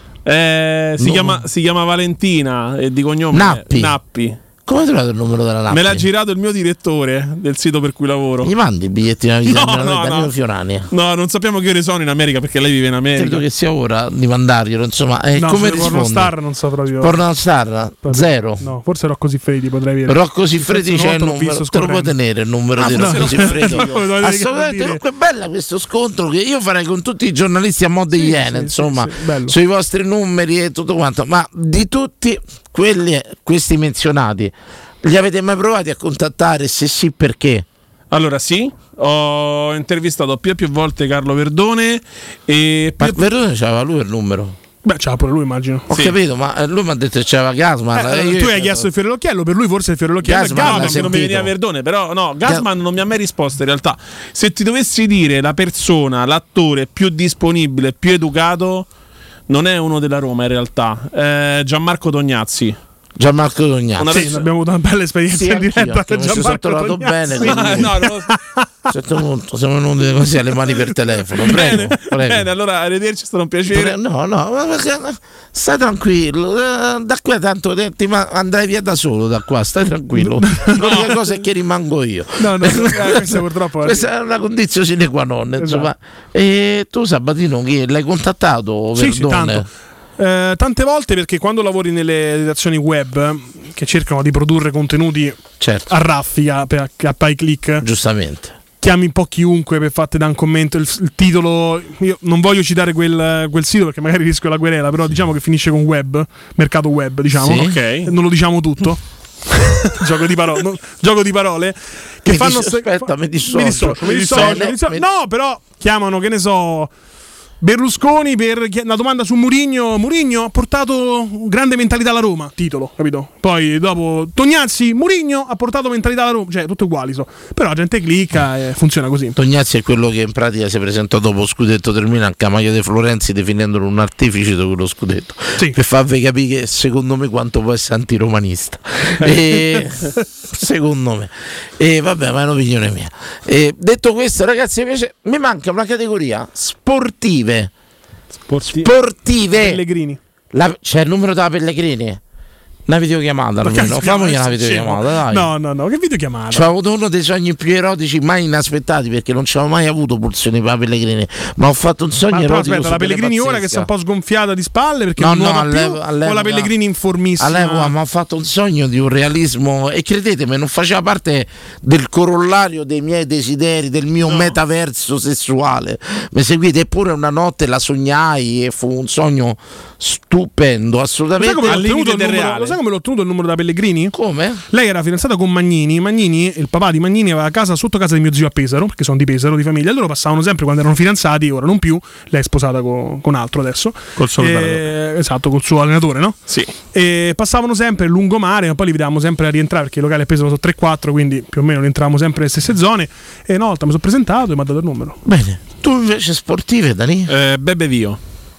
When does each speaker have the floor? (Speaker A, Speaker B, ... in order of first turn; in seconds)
Speaker A: 0.2-4.4, 5.7-8.5, 9.4-10.3, 10.9-13.4, 15.7-15.9, 22.8-24.0, 38.1-43.3, 50.5-58.9, 59.5-62.8, 64.0-64.4, 67.4-68.3, 71.4-73.9, 80.8-81.1, 107.6-108.1, 114.2-114.6, 148.5-148.9, 174.2-174.6, 181.7-182.8, 194.2-194.8, 207.3-208.2
Speaker B: 1.0-1.4, 3.3-4.0, 4.7-6.0, 8.4-10.9, 13.2-16.3, 17.0-18.6, 20.1-37.6, 43.0-44.5, 45.9-48.9, 50.2-51.5, 63.2-64.1, 65.3-67.9, 68.9-72.5, 73.7-89.7, 95.6-95.9, 97.8-98.6, 107.3-107.8, 112.2-115.0, 129.3-147.7, 148.7-149.8, 150.5-152.2, 152.9-155.5, 156.5-163.9, 165.2-166.7, 167.4-181.8, 184.1-184.6, 205.2-207.3
Speaker C: 15.3-17.1, 18.0-22.1, 22.8-25.0, 28.2-29.5, 44.8-45.9, 47.9-51.1, 64.1-68.6, 80.5-80.8, 82.4-84.1, 85.6-85.9, 89.0-89.7, 90.2-95.4, 95.9-97.8, 98.8-109.0, 109.9-116.9, 117.6-129.3, 149.5-150.2, 153.6-156.7, 162.3-167.9, 181.4-184.1, 184.7-196.4, 196.9-205.2